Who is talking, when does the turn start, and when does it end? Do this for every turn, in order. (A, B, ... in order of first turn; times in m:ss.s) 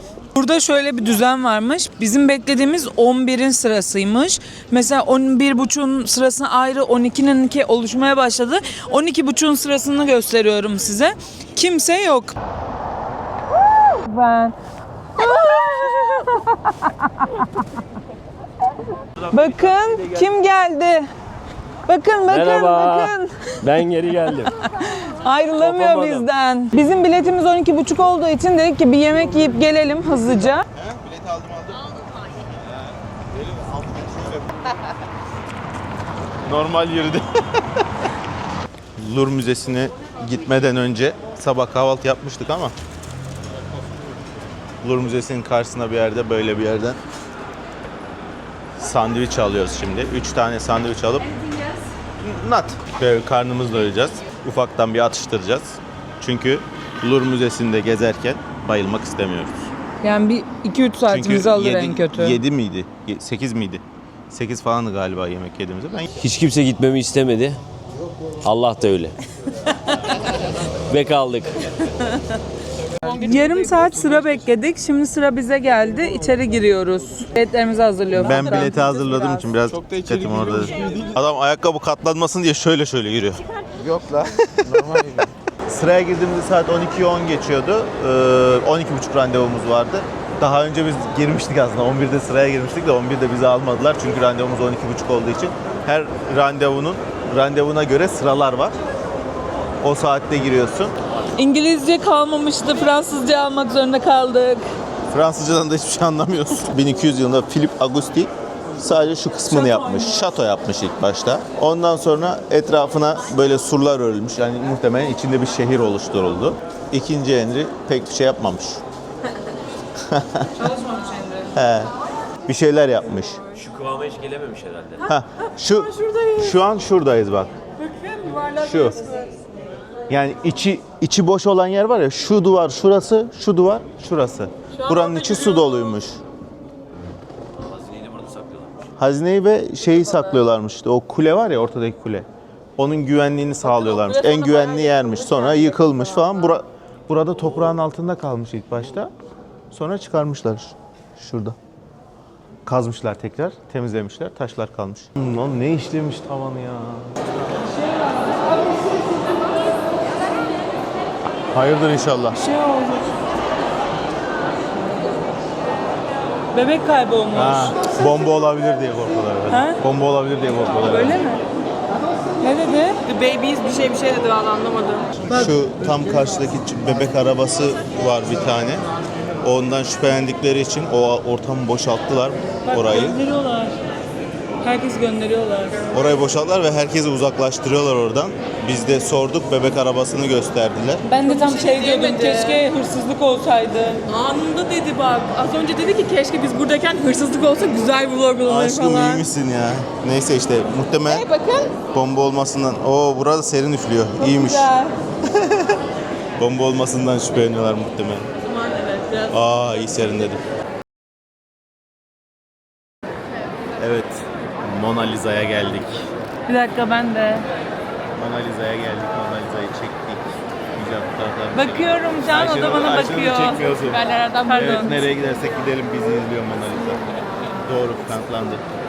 0:00.3-0:12.3 A
0:13.9-0:14.5 A
0:15.2-0:17.2 A
0:19.3-0:21.0 A
0:21.9-0:23.6 A
0:22.3-0:24.6 B
0:24.8-0:30.6 A
0:25.6-0:26.3 B
0:30.7-0:34.7 C
0:36.4-0:37.8 C
0:39.0-0:42.7 C
0:44.8-0:47.0 C
0:48.8-0:51.2 C
0:51.3-0:51.8 A
0:52.2-0:59.7 C
1:00.0-1:02.4 A
1:01.1-1:06.1 C
1:06.2-1:07.6 B
1:08.4-1:09.2 B
1:10.9-1:11.6 B
1:13.0-1:14.5 D
1:13.2-1:19.1 A
1:18.1-1:23.4 C
1:19.7-1:21.1 E
1:23.8-1:25.3 E
1:24.5-1:24.8 C
1:25.7-1:38.8 C
1:39.8-1:40.9 C
1:41.4-1:44.6 A
1:45.1-1:58.8 C
1:49.4-1:50.3 A
2:00.1-2:00.5 C
2:00.6-2:01.5 A
2:01.5-2:01.9 C
2:02.4-2:03.4 C
2:03.6-2:05.0 B
2:05.0-2:07.5 C
2:05.8-2:06.5 D
2:07.8-2:09.3 D
2:08.6-2:09.0 C
2:10.1-2:16.2 C
2:14.7-2:16.0 D
2:17.6-2:18.9 B
2:19.0-2:29.1 C
2:23.6-2:26.4 D
2:29.7-2:31.6 C
2:32.6-2:37.2 C
2:41.5-2:42.4 C
2:42.3-2:43.1 A
2:46.5-2:47.8 A
2:47.3-2:51.2 C
2:49.5-2:49.8 A
2:50.8-2:51.4 A
2:52.4-2:53.0 A
2:53.0-2:55.1 D
2:55.2-2:58.8 C
2:59.4-3:03.2 C
3:02.6-3:03.8 A
3:04.6-3:05.8 A
3:05.9-3:11.0 C
3:11.0-3:14.0 A
3:11.2-3:12.7 D
3:14.1-3:19.2 D
3:18.4-3:21.2 C
3:21.0-3:21.8 D
3:21.9-3:25.8 C
3:24.2-3:24.9 D
3:26.4-3:28.3 C
3:28.4-3:29.3 D
3:29.3-3:30.4 C
3:33.8-3:36.1 C
3:36.5-3:37.4 A
3:38.1-3:44.0 C
3:41.5-3:43.7 A
3:43.8-3:45.1 D
3:44.4-3:44.9 A
3:44.5-3:48.6 C